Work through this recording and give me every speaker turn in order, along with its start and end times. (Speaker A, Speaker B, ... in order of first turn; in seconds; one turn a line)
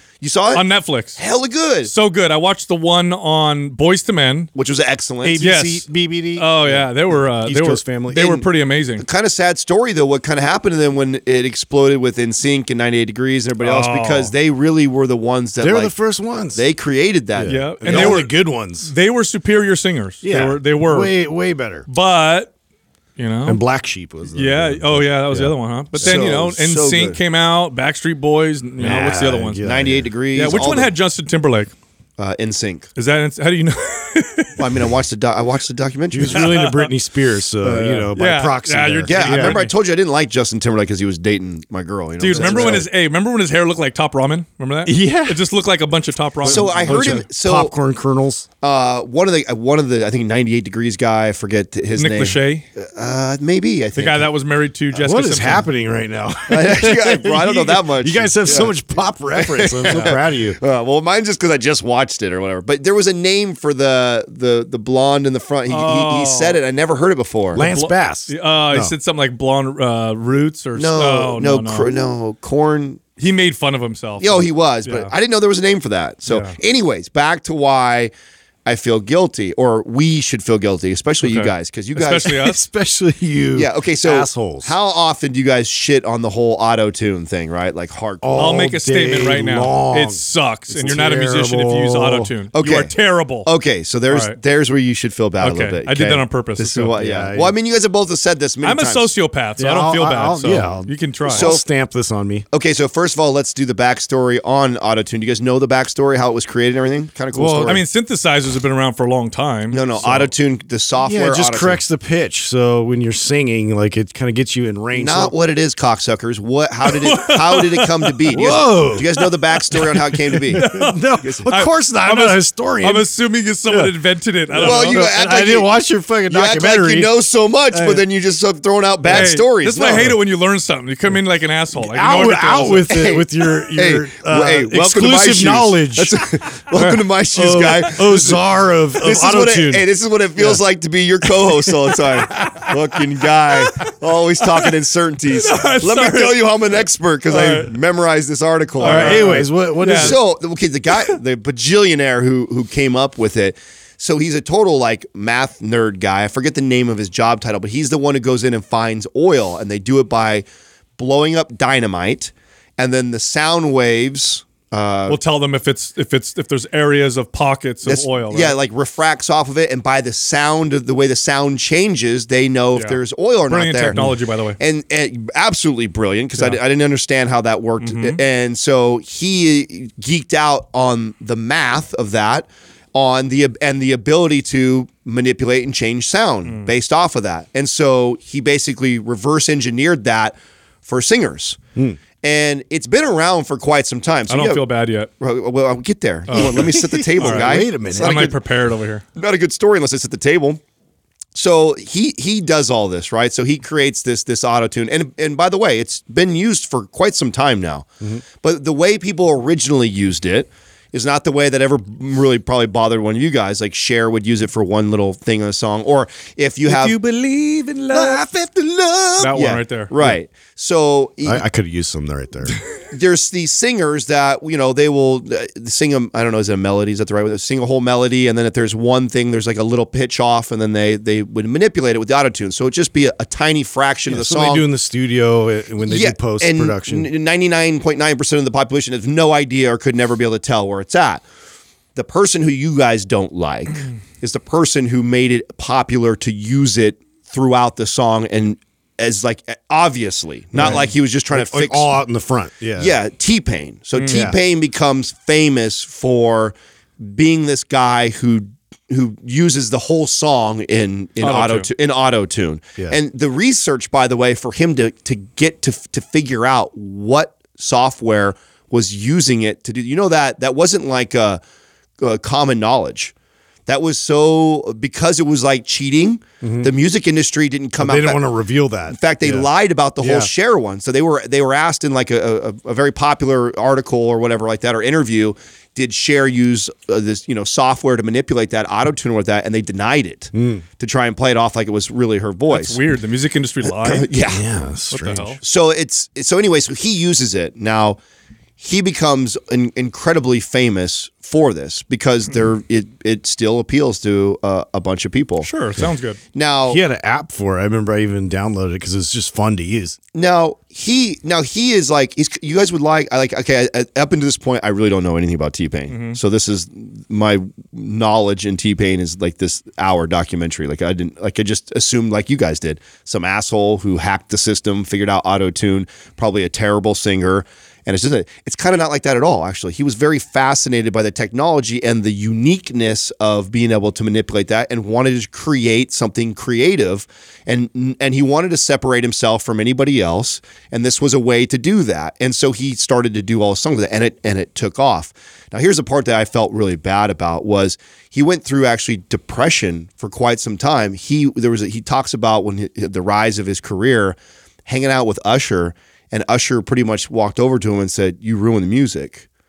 Speaker A: 0.2-1.9
Speaker B: 0.5-1.2
Speaker B: 1.8-4.5
Speaker A: 4.5-5.5
Speaker C: 5.2-8.4
Speaker B: 5.4-9.0
Speaker A: 9.0-16.0
Speaker B: 13.6-14.3
Speaker C: 15.6-16.6
Speaker A: 16.5-18.2
Speaker C: 17.3-18.9
Speaker B: 17.4-21.1
Speaker C: 20.2-21.8
Speaker B: 21.9-22.5
Speaker B: 23.2-23.6
Speaker C: 23.4-26.3
Speaker B: 24.3-29.6
Speaker A: 25.9-27.2
Speaker C: 28.8-30.1
Speaker A: 29.6-30.9
Speaker B: 30.3-31.7
Speaker A: 32.2-32.9
Speaker B: 33.0-34.6
Speaker A: 34.6-36.6
Speaker C: 36.1-39.6
Speaker B: 36.3-36.9
Speaker B: 37.6-39.7
Speaker A: 39.1-42.9
Speaker B: 42.2-47.3
Speaker C: 42.3-42.9
Speaker C: 44.8-45.5
Speaker C: 46.4-48.5
Speaker A: 46.4-47.7
Speaker A: 48.6-54.3
Speaker B: 51.9-52.6
Speaker B: 53.9-55.7
Speaker C: 54.9-60.6
Speaker A: 56.5-58.7
Speaker A: 59.3-67.7
Speaker B: 59.9-60.1
Speaker B: 65.7-66.6
Speaker C: 67.5-68.9
Speaker B: 67.6-71.9
Speaker A: 70.7-73.0
Speaker B: 73.2-75.1
Speaker A: 74.2-78.1
Speaker B: 76.3-76.6
Speaker A: 78.6-82.4
Speaker B: 81.2-82.7
Speaker C: 82.2-84.8
Speaker A: 83.5-88.7
Speaker C: 88.2-92.3
Speaker B: 88.3-93.5
Speaker A: 92.5-92.9
Speaker A: 93.4-99.1
Speaker B: 94.1-94.4
Speaker B: 95.4-97.0
Speaker C: 96.6-97.5
Speaker B: 98.6-101.5
Speaker C: 99.6-102.5
Speaker A: 101.3-101.7
Speaker A: 102.5-107.8
Speaker C: 107.3-107.8
Speaker B: 107.6-110.3
Speaker A: 109.7-111.8
Speaker C: 110.0-110.3
Speaker C: 111.0-115.3
Speaker A: 114.9-120.7
Speaker B: 116.8-118.5
Speaker C: 118.3-119.1
Speaker C: 120.3-123.1
Speaker B: 120.5-125.0
Speaker C: 123.7-124.0
Speaker C: 124.5-127.1
Speaker A: 124.5-125.7
Speaker A: 126.3-130.1
Speaker C: 127.7-128.1
Speaker B: 129.1-132.9
Speaker C: 131.7-140.6
Speaker A: 132.8-138.4
Speaker A: 139.0-149.4
Speaker B: 142.2-142.7
Speaker B: 143.6-143.9
Speaker B: 145.3-147.7
Speaker B: 148.8-150.2
Speaker C: 148.8-150.2
Speaker A: 149.9-160.4
Speaker A: 161.0-165.2
Speaker B: 165.1-168.5
Speaker A: 167.8-191.6
Speaker B: 172.7-174.6
Speaker B: 176.3-176.6
Speaker B: 177.8-178.2
Speaker B: 186.4-186.7
Speaker A: 192.2-198.4
Speaker B: 194.3-195.1
Speaker B: 196.3-199.0
Speaker C: 196.3-198.3
Speaker A: 199.1-200.6
Speaker A: 201.3-217.0
Speaker B: 216.7-218.2
Speaker C: 217.9-219.1
Speaker A: 217.9-221.4
Speaker B: 219.2-219.9
Speaker C: 221.2-222.6
Speaker A: 222.9-234.7
Speaker C: 234.1-237.1
Speaker A: 235.8-241.2
Speaker A: 241.9-251.9
Speaker C: 250.5-252.9
Speaker A: 252.8-271.4
Speaker B: 253.9-254.3
Speaker C: 254.1-254.4
Speaker B: 261.2-261.7
Speaker A: 272.0-273.1
Speaker A: 273.7-278.2
Speaker C: 276.4-276.7
Speaker C: 277.8-279.5
Speaker A: 278.9-292.8
Speaker C: 280.0-280.3
Speaker C: 290.3-290.6
Speaker B: 292.5-294.1
Speaker A: 293.8-294.4
Speaker C: 294.1-295.4
Speaker B: 294.9-295.4
Speaker A: 295.4-298.0
Speaker A: 298.6-305.5
Speaker B: 305.4-306.2
Speaker A: 306.3-306.8
Speaker C: 306.7-310.0
Speaker A: 310.1-359.2
Speaker B: 315.9-316.2